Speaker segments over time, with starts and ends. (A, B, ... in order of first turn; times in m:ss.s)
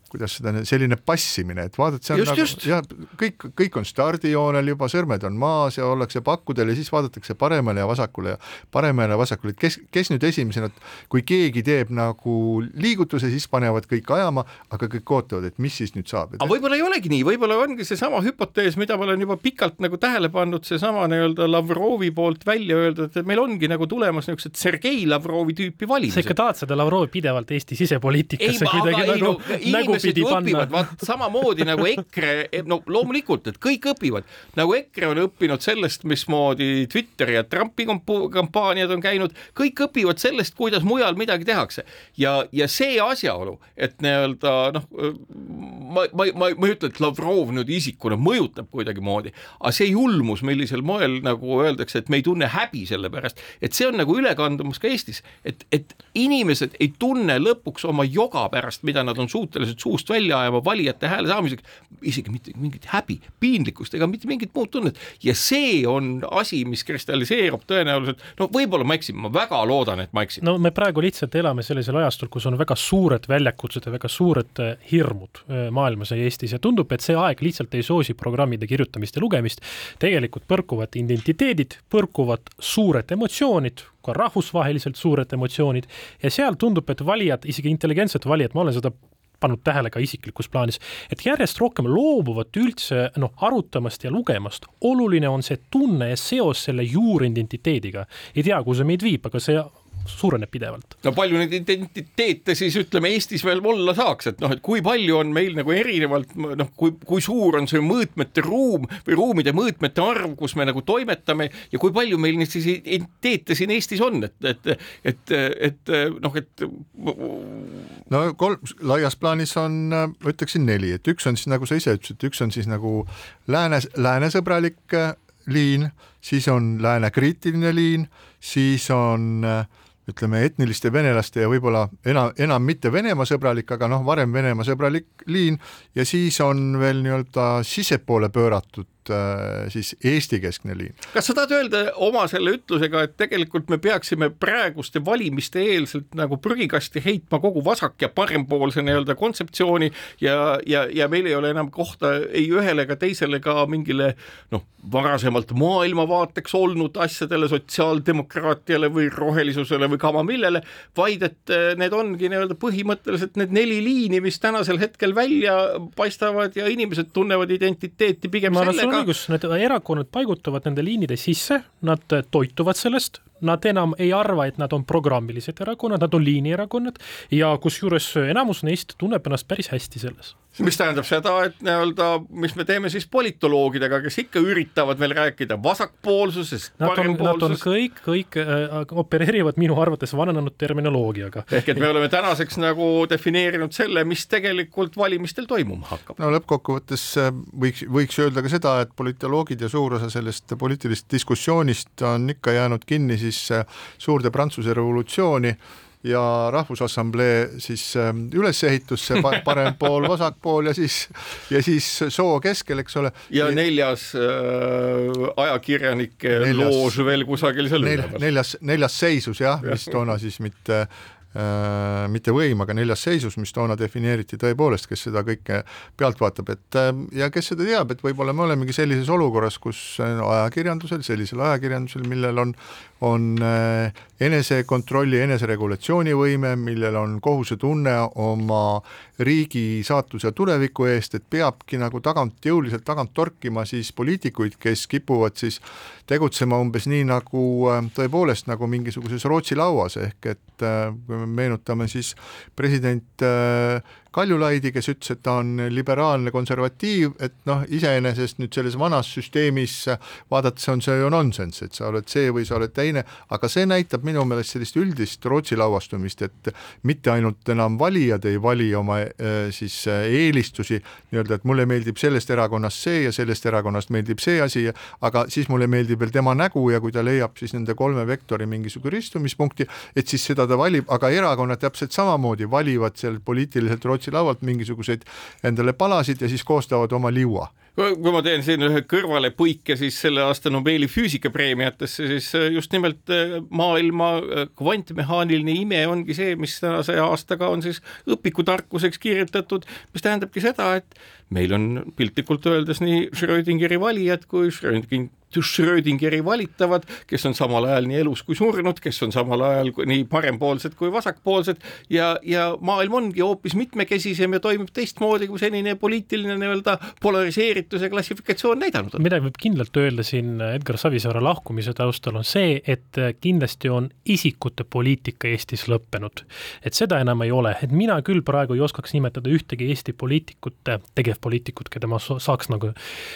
0:00.1-0:16.5 A
0:02.1-0:02.7 B
0:16.4-0:26.3 B
0:26.1-0:31.0 C
0:28.4-1:10.4 B
1:10.4-1:40.9 C
1:41.0-1:57.9 B
1:58.1-2:21.0 A
2:21.1-2:49.1 B
2:48.5-3:00.3 C
3:00.6-3:07.6 B
3:06.8-3:11.6 C
3:11.5-3:16.2 B
3:16.2-3:33.6 A
3:33.3-3:38.2 B
3:36.3-3:37.0 A
3:37.8-4:47.5 A
4:47.8-5:19.0 B
5:19.0-5:32.8 C